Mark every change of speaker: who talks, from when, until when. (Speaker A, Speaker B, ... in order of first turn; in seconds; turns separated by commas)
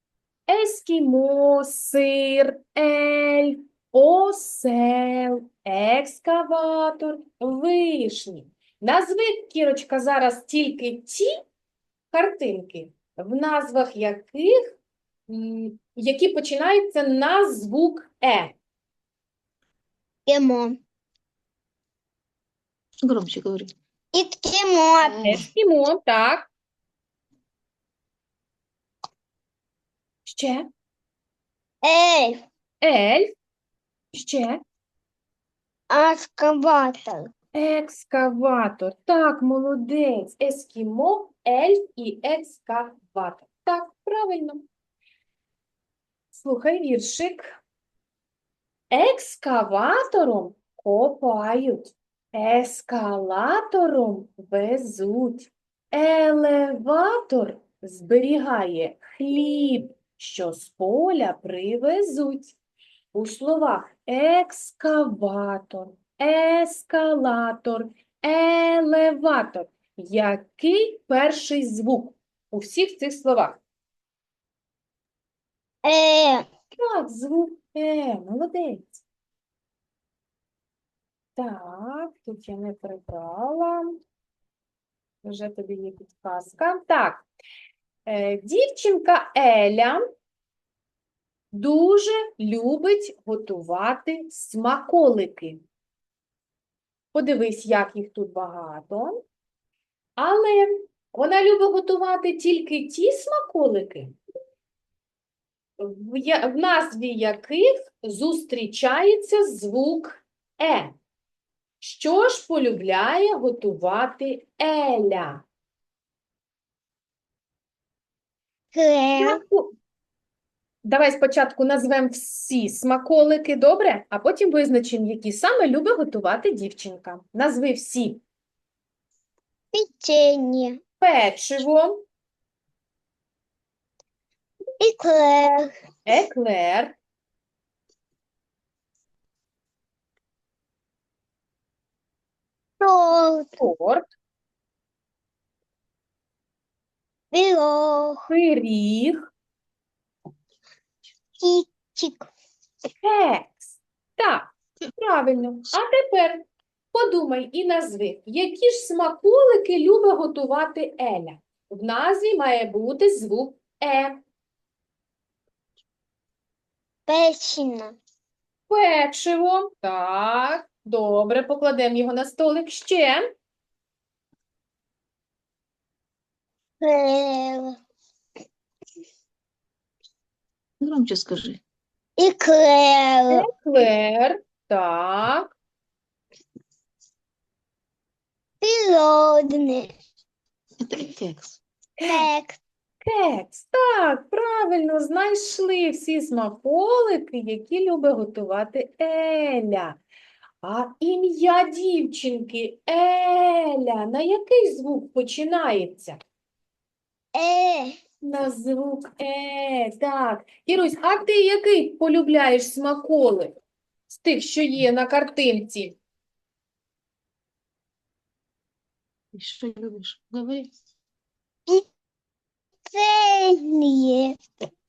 Speaker A: 0.5-11.3, Speaker A: 12.1-14.7, Speaker A: 15.3-18.5, Speaker B: 20.3-20.8, Speaker C: 23.0-23.7, Speaker B: 24.1-25.2, Speaker C: 25.0-25.5, Speaker A: 25.2-26.5, Speaker A: 30.2-30.7, Speaker B: 31.8-32.4, Speaker A: 32.8-33.3, Speaker A: 34.1-34.6, Speaker B: 35.9-37.3, Speaker A: 37.5-44.6, Speaker A: 46.3-47.6, Speaker A: 48.9-62.5, Speaker A: 63.1-73.6, Speaker B: 75.8-76.4, Speaker A: 76.7-79.0, Speaker A: 81.3-84.0, Speaker A: 85.2-87.2, Speaker A: 88.0-90.0, Speaker A: 91.5-95.6, Speaker A: 97.1-99.2, Speaker A: 100.2-104.2, Speaker A: 105.8-110.9, Speaker A: 111.8-115.4, Speaker B: 118.7-119.4, Speaker A: 119.2-119.7, Speaker A: 120.8-128.2, Speaker B: 129.7-130.8, Speaker A: 131.0-132.1, Speaker B: 134.8-135.7, Speaker A: 136.1-136.9, Speaker B: 142.8-143.6, Speaker A: 143.6-144.1, Speaker B: 147.3-148.2, Speaker A: 148.3-149.2, Speaker B: 151.4-152.3, Speaker A: 153.0-164.2, Speaker B: 167.1-168.0, Speaker A: 168.7-173.3, Speaker B: 176.8-177.8, Speaker C: 180.8-181.6, Speaker B: 182.2-183.4, Speaker A: 183.3-185.5, Speaker B: 188.6-189.9, Speaker C: 190.8-191.6, Speaker A: 192.0-192.3, Speaker B: 192.0-192.6, Speaker A: 193.0-200.0, Speaker A: 200.6-206.2, Speaker B: 207.3-208.0, Speaker A: 208.2-213.6, Speaker A: 214.1-216.0, Speaker C: 219.3-220.7, Speaker B: 222.9-224.4